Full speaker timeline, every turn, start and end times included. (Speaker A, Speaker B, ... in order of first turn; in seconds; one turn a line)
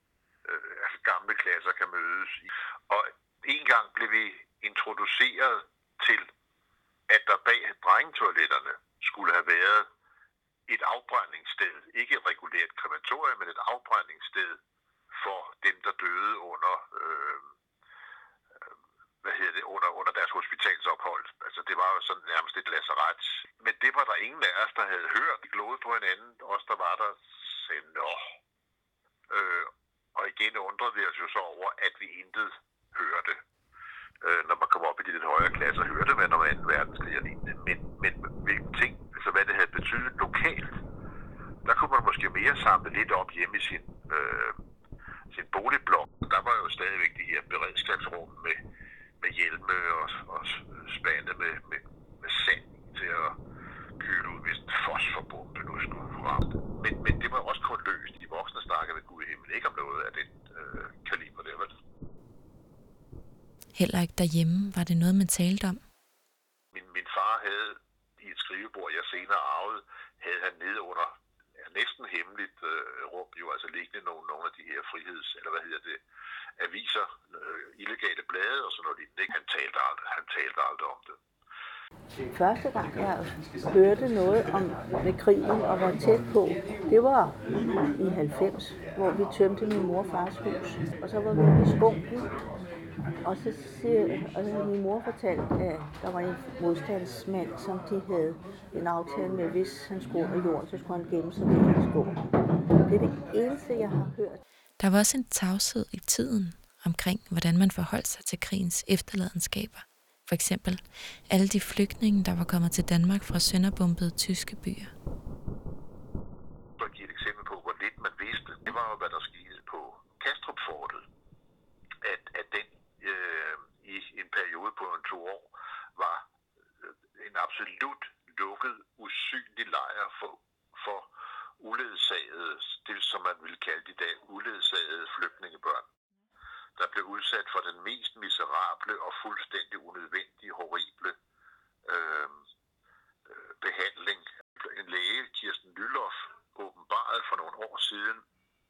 Speaker A: 0.5-6.3
Speaker A: 7.1-9.9
Speaker A: 10.7-14.6
Speaker A: 15.1-17.5
Speaker A: 19.2-28.3
Speaker A: 29.3-33.4
Speaker A: 34.2-40.7
Speaker A: 41.6-44.6
Speaker A: 45.3-48.6
Speaker A: 49.2-53.4
Speaker A: 54.0-61.7
Speaker B: 63.8-65.8
Speaker A: 66.7-76.0
Speaker A: 76.6-81.2
Speaker C: 82.3-92.2
Speaker C: 93.2-102.2
Speaker C: 102.9-104.4
Speaker B: 104.8-114.9
Speaker A: 116.8-121.0
Speaker A: 122.0-126.2
Speaker A: 126.9-131.1
Speaker A: 131.6-135.8
Speaker A: 136.8-141.1
Speaker A: 141.9-142.4
Speaker A: 143.3-148.2